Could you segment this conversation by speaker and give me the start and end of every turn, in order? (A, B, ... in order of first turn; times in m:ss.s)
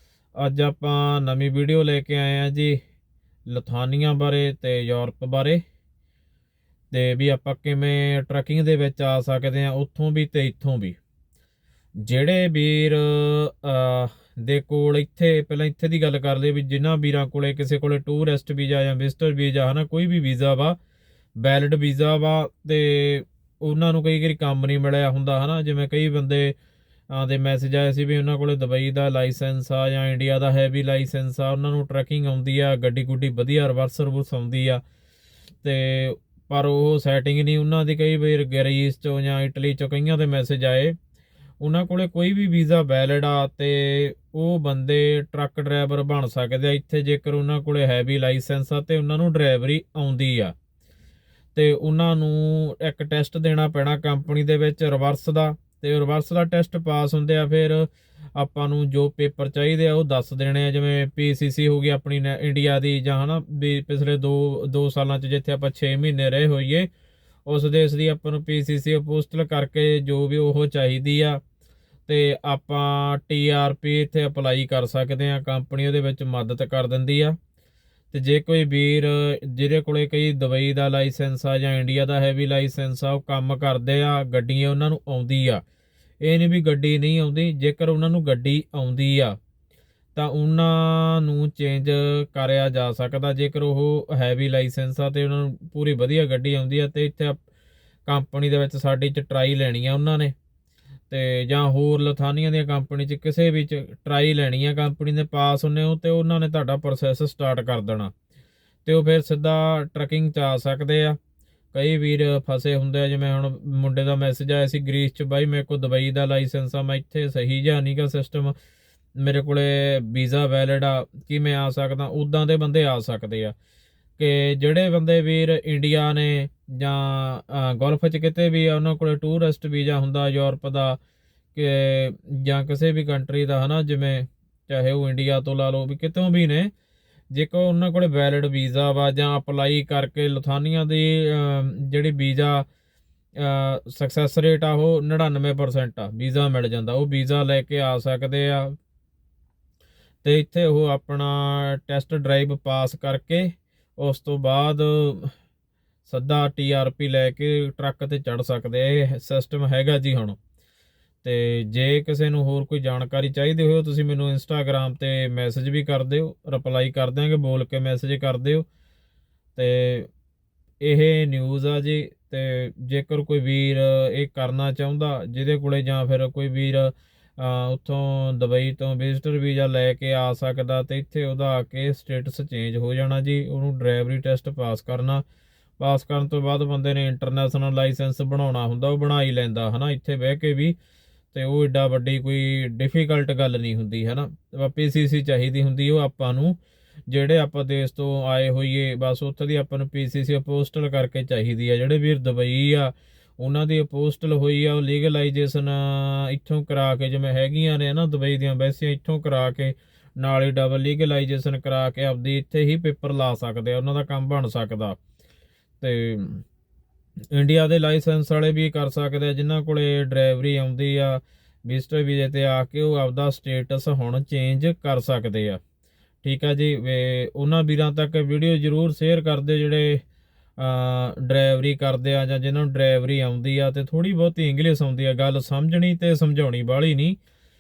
0:00.4-0:02.8 A
0:03.5-0:05.6 A
0:06.9-0:11.0 A
0:12.0-0:20.8 A
0:21.4-0:26.6 A
0:27.1-0:34.8 A
0:35.6-0:41.0 A
0:41.6-0:50.5 A
0:51.6-1:06.9 A
1:07.5-1:11.4 A
1:12.1-1:17.4 A
1:18.1-1:25.6 A
1:26.2-1:29.4 A
1:30.2-1:37.4 A
1:38.1-1:40.3 A
1:41.1-1:48.1 A
1:48.8-1:51.2 A
1:51.7-1:58.5 A
1:59.2-2:03.5 A
2:04.2-2:11.0 A
2:11.5-2:16.7 A
2:17.3-2:22.7 A
2:23.4-2:28.8 A
2:30.2-2:35.3 A
2:36.1-2:40.4 A
2:41.2-2:48.7 A
2:49.6-2:50.1 A
2:50.8-3:05.2 A
3:05.8-3:10.8 A
3:11.3-3:35.0 A
3:35.8-3:36.4 A
3:37.3-3:45.6 A
3:46.2-3:50.0 A
3:50.6-3:57.2 A